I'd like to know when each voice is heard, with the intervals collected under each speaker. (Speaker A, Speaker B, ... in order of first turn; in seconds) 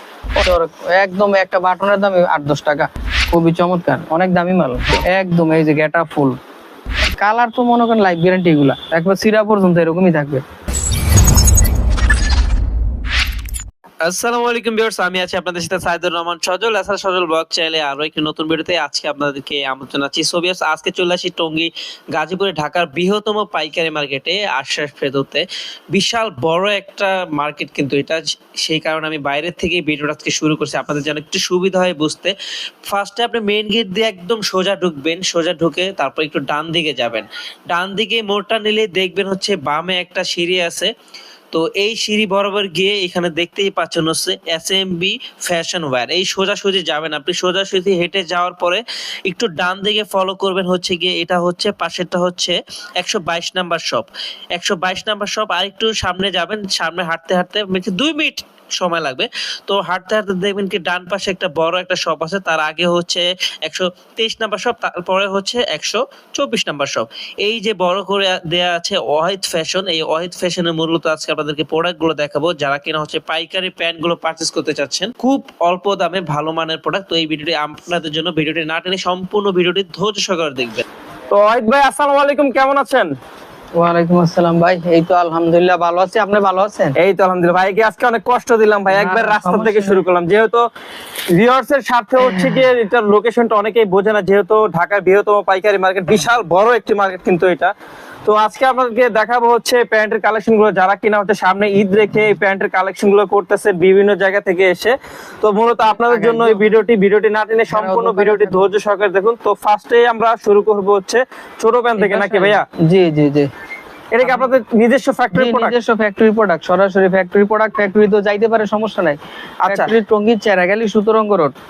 Speaker A: 0.4-6.4, 7.1-10.4, 83.8-87.0, 88.9-90.0, 92.2-92.7, 106.1-106.7, 107.7-108.7, 112.0-113.5, 114.2-114.5, 115.3-121.5
Speaker B: 14.0-40.9, 41.5-80.8
Speaker C: 81.3-83.1, 87.0-90.7, 91.3-97.7, 98.2-112.7, 114.1-115.8, 119.6-119.9